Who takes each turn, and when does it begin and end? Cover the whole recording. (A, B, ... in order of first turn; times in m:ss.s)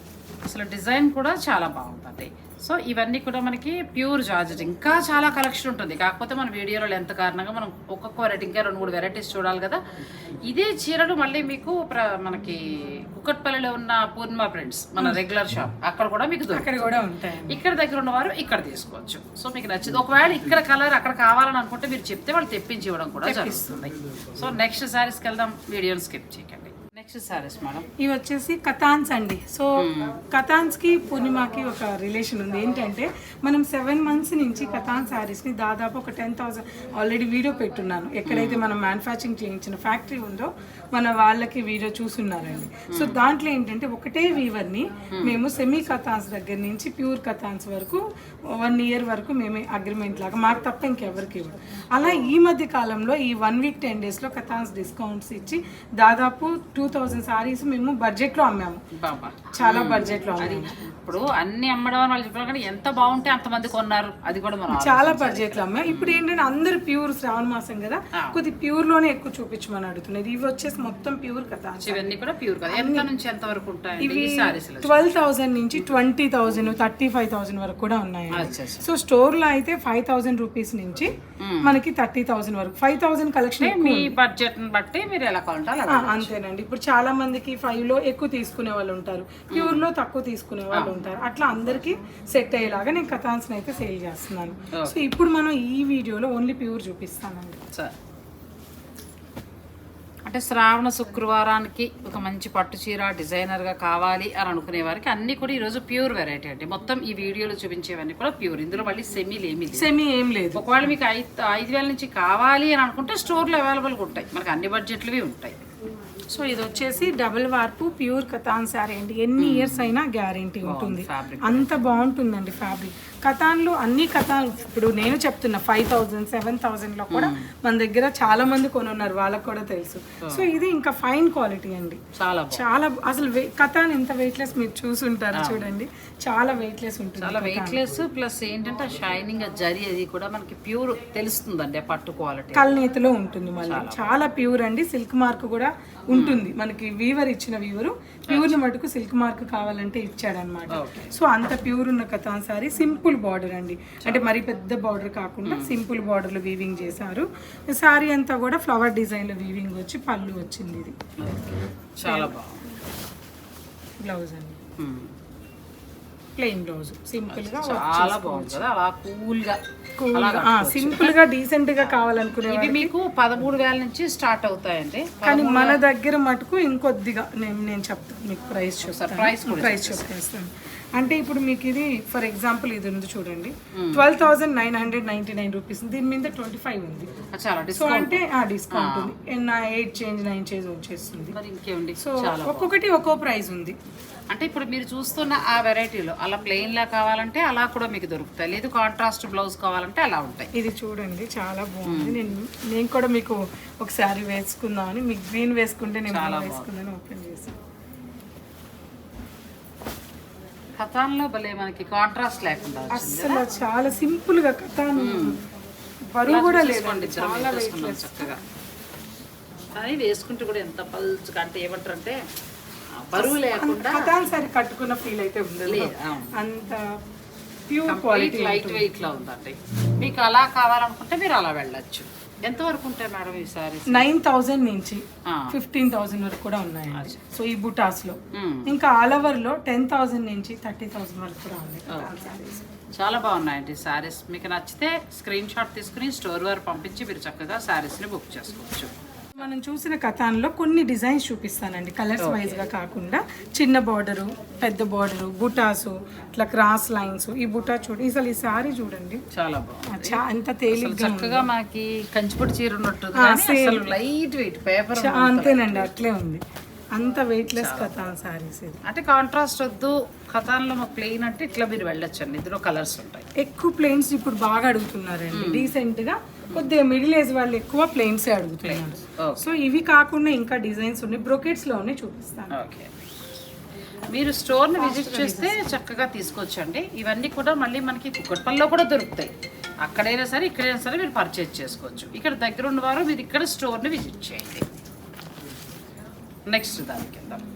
0:00.4-0:09.8 A
0:10.4-0:27.9 A
0:16.5-0:17.6 B
0:23.2-0:23.8 B
0:28.0-0:58.8 B
0:29.8-0:30.2 A
0:38.2-0:38.7 A
0:42.9-0:43.2 A
0:45.1-0:45.4 A
0:52.0-0:52.3 A
0:58.9-1:06.2 A
0:59.6-1:00.8 B
1:04.7-1:12.2 B
1:08.1-1:08.4 A
1:11.8-1:15.0 A
1:12.7-1:13.1 B
1:14.0-1:24.1 B
1:18.3-1:18.9 A
1:21.4-1:21.8 A
1:23.6-1:26.3 A
1:25.9-1:37.6 B
1:29.5-1:29.9 A
1:30.7-1:31.0 A
1:34.7-1:35.0 A
1:40.2-1:49.9 A
1:49.7-1:50.6 B
1:50.5-1:55.6 A
1:56.3-2:17.8 B
1:59.4-1:59.9 A
2:00.6-2:01.7 A
2:07.1-2:07.5 A
2:10.2-2:10.5 A
2:12.1-2:12.6 A
2:15.3-2:15.7 A
2:17.2-2:22.7 A
2:22.5-2:41.0 B
2:23.6-2:24.1 A
2:26.1-2:26.5 A
2:28.3-2:28.6 A
2:30.7-2:31.1 A
2:35.4-2:35.8 A
2:41.2-2:42.8 A
2:42.0-2:42.3 B
2:44.0-2:44.6 B
2:44.8-2:45.1 A
2:46.4-2:48.6 B
2:47.3-2:49.6 A
2:50.0-2:52.9 B
2:50.1-2:51.2 A
2:52.4-2:55.8 A
2:55.2-3:07.1 B
2:58.8-3:00.2 A
3:03.7-3:04.0 A
3:07.3-3:09.1 A
3:07.7-3:11.4 B
3:11.3-3:12.7 A
3:12.0-3:13.8 B
3:14.3-3:20.5 A
3:20.5-3:27.6 B
3:21.8-3:22.2 A
3:26.1-3:26.7 A
3:30.8-3:33.4 A
3:32.9-3:35.4 B
3:34.9-3:35.4 A
3:36.1-3:38.4 B
3:36.2-3:38.4 A
3:39.7-3:42.2 A
3:42.9-3:44.2 A
3:43.1-3:47.0 B
3:45.6-3:46.3 A
3:47.7-3:48.9 B
3:47.9-3:54.1 A
3:53.9-4:02.7 B
3:55.2-3:55.5 A
3:56.9-3:57.2 A
3:58.3-3:58.7 A
4:02.9-4:08.9 A
4:09.4-4:19.2 B
4:12.2-4:12.6 A
4:19.3-4:25.8 A
4:19.9-4:21.5 B
4:23.1-4:23.9 B
4:25.0-4:26.4 B
4:26.9-4:28.8 B
4:27.5-4:27.9 A
4:28.8-4:33.3 A
4:33.4-4:42.5 B
4:35.3-4:35.7 A
4:38.6-4:39.5 A
4:42.5-4:42.9 A
4:44.1-4:49.3 A
4:44.8-4:45.7 B
4:49.8-4:54.7 A
4:56.5-4:57.4 A